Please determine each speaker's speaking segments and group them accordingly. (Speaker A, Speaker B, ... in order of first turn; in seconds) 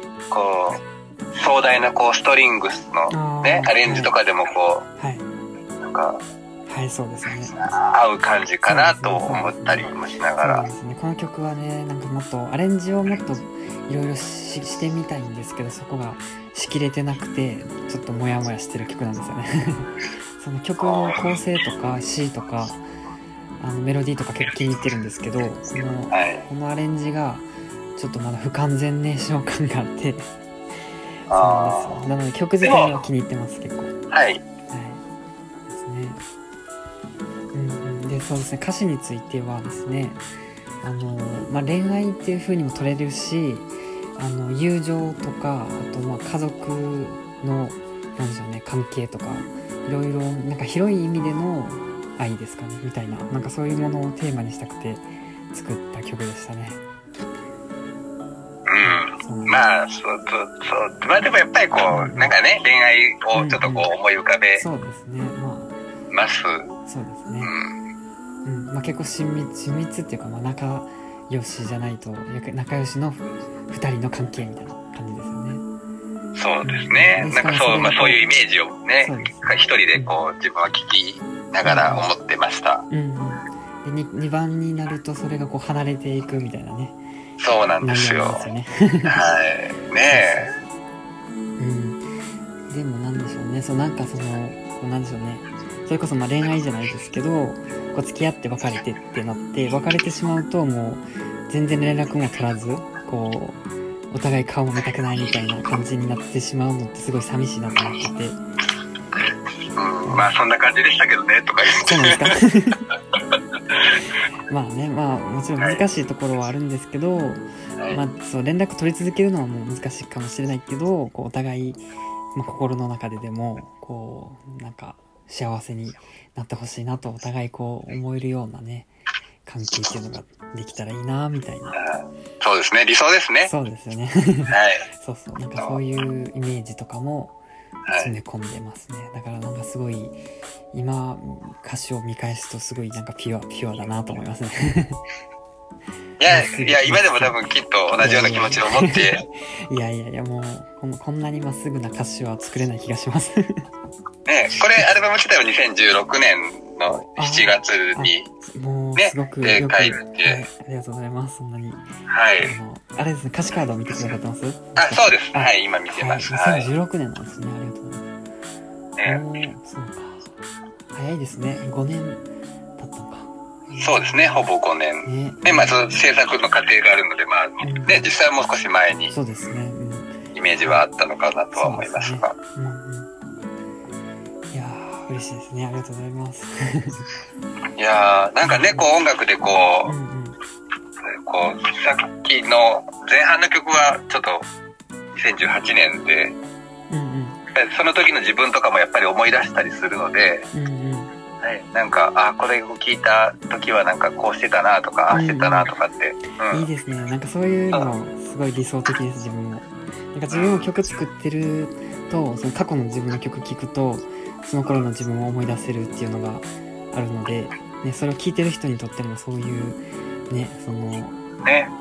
Speaker A: 0.3-0.8, 1.3-4.8, 5.8-6.2, 7.5-10.7, 20.8-21.3, 26.1-26.4, 31.3-32.0, 32.6-33.0, 34.1-34.4, 58.7-64.6, 66.1-66.7, 67.4-67.7, 76.3-82.8, 87.4-88.5, 89.1-90.5, 109.7-112.3, 131.7-133.5, 134.5-134.9, 137.8-138.1, 146.2-149.2, 154.2-158.3, 159.0-160.4, 162.1-162.5, 164.8-166.7, 169.0-169.2, 173.8-179.1, 180.3-182.3, 187.8-189.9, 191.1-194.5, 195.1-196.3, 197.5-200.5, 201.4-206.7, 210.3-210.7, 221.4-221.7
Speaker B: 3.1-4.1, 5.0-5.3, 6.7-7.5, 8.6-22.8, 23.6-30.3, 31.3-33.9, 34.7-35.0, 35.7-36.2, 37.5-40.2, 40.8-56.8, 59.1-59.6, 61.9-62.3, 63.3-63.9, 64.5-65.8, 66.9-67.5, 68.4-75.6, 76.6-78.3, 79.0-80.2, 81.6-82.1, 82.9-87.0, 87.8-89.2, 90.1-90.6, 91.6-92.1, 92.7-108.4, 110.1-110.3, 111.8-112.9, 114.5-128.9, 129.4-131.8, 133.4-137.4, 137.9-140.2, 140.7-145.0, 146.3-147.3, 148.0-153.7, 157.2-161.8, 162.4-168.1, 169.0-170.3, 170.9-172.2, 172.8-174.5, 175.0-175.9, 177.6-178.1, 179.1-180.8, 181.5-183.1, 184.5-187.1, 188.4-188.9, 189.8-190.4, 196.9-197.4, 200.5-201.1, 205.1-205.7, 206.5-221.2